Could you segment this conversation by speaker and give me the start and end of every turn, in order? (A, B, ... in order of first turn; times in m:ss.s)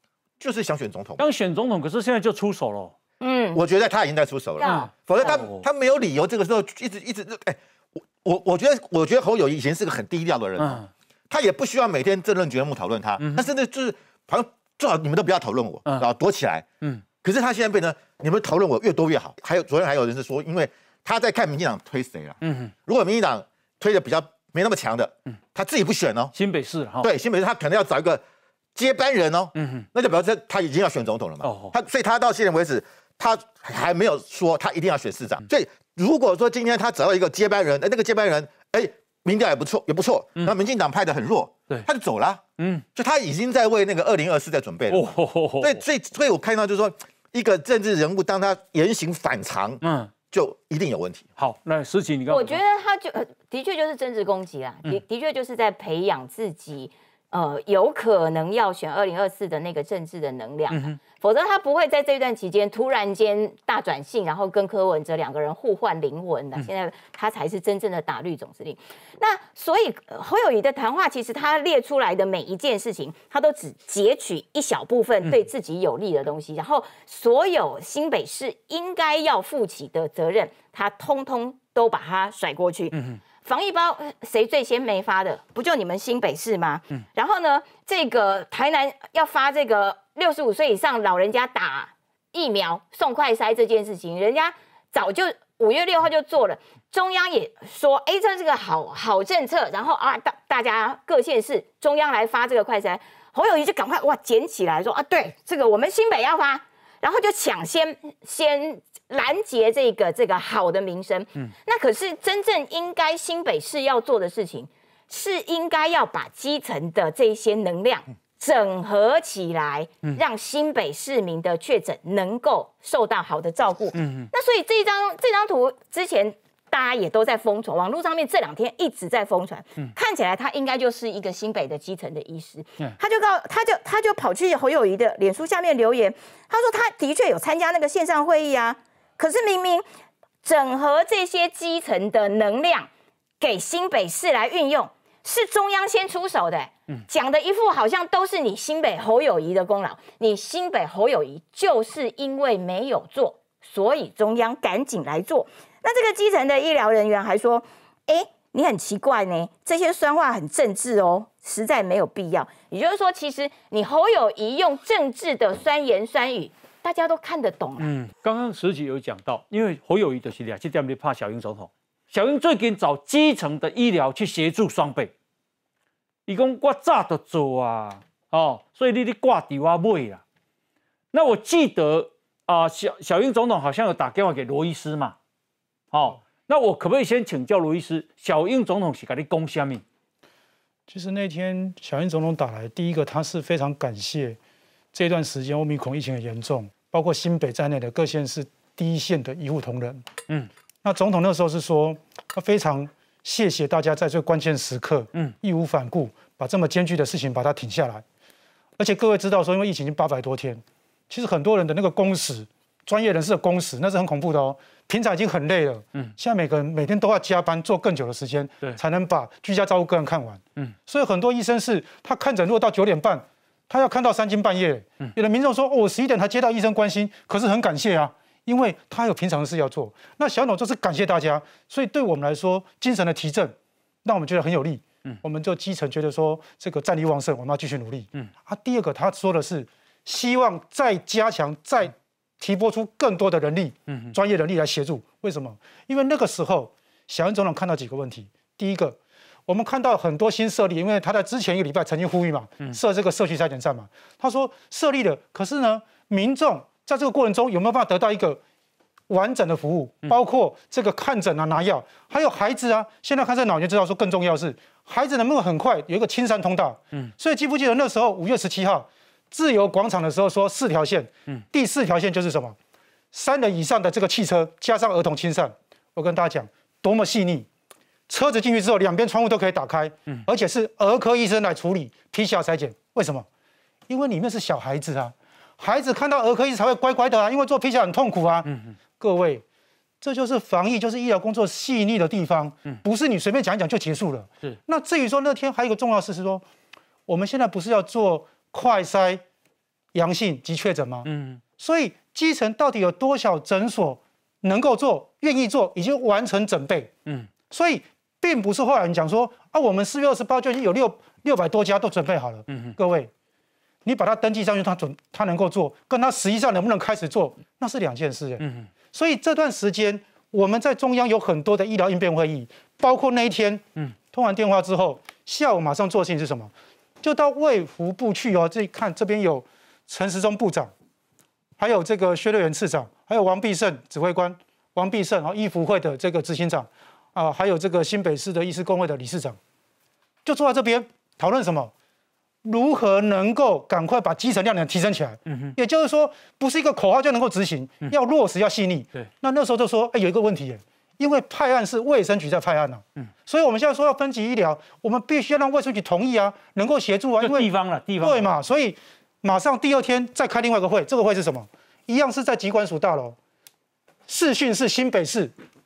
0:00.4-0:01.2 A
0:01.2-0:02.9 B
0:03.2-0:03.6 C
0:03.5-0:07.6 A
0:04.6-0:04.9 C
0:04.6-0:05.6 B
0:08.2-0:16.6 A
0:10.6-0:10.9 B
0:13.2-0:13.4 B
0:17.2-0:26.3 A
0:22.4-0:22.7 B
0:26.3-0:27.1 B
0:27.0-0:28.2 A
0:28.7-0:42.4 A
0:29.5-0:29.9 B
0:31.4-0:31.7 B
0:42.6-0:42.8 B
0:42.9-0:51.3 A
0:44.9-0:45.8 B
0:49.8-0:50.1 B
0:51.4-0:52.6 B
0:52.3-2:19.8 C
1:22.9-1:23.2 B
2:03.9-2:04.3 B
2:20.4-2:22.9 C
2:23.4-2:47.9 C
2:47.8-2:55.1 B
2:56.3-3:00.2 B
3:01.1-3:05.1 B
3:05.9-3:09.8 B
3:10.9-3:14.4 D
3:14.9-3:20.0 D
3:20.8-3:28.0 D
3:28.8-4:18.4 D
4:03.9-4:04.1 B
4:19.1-4:32.6 D
4:33.1-4:37.5 D
4:38.1-4:43.3 D
4:43.9-4:49.4 D
4:48.4-4:48.8 B
4:50.0-4:56.4 D
4:57.1-4:59.2 D
4:59.9-5:06.9 D
5:01.0-5:01.4 B
5:07.5-5:13.1 D
5:12.5-5:12.8 B
5:13.8-5:30.7 D
5:18.4-5:18.7 B
5:31.6-5:39.4 D
5:40.2-5:41.7 D
5:42.4-6:03.2 D
5:45.3-5:45.6 B
5:57.2-5:58.3 B
6:04.1-6:05.3 D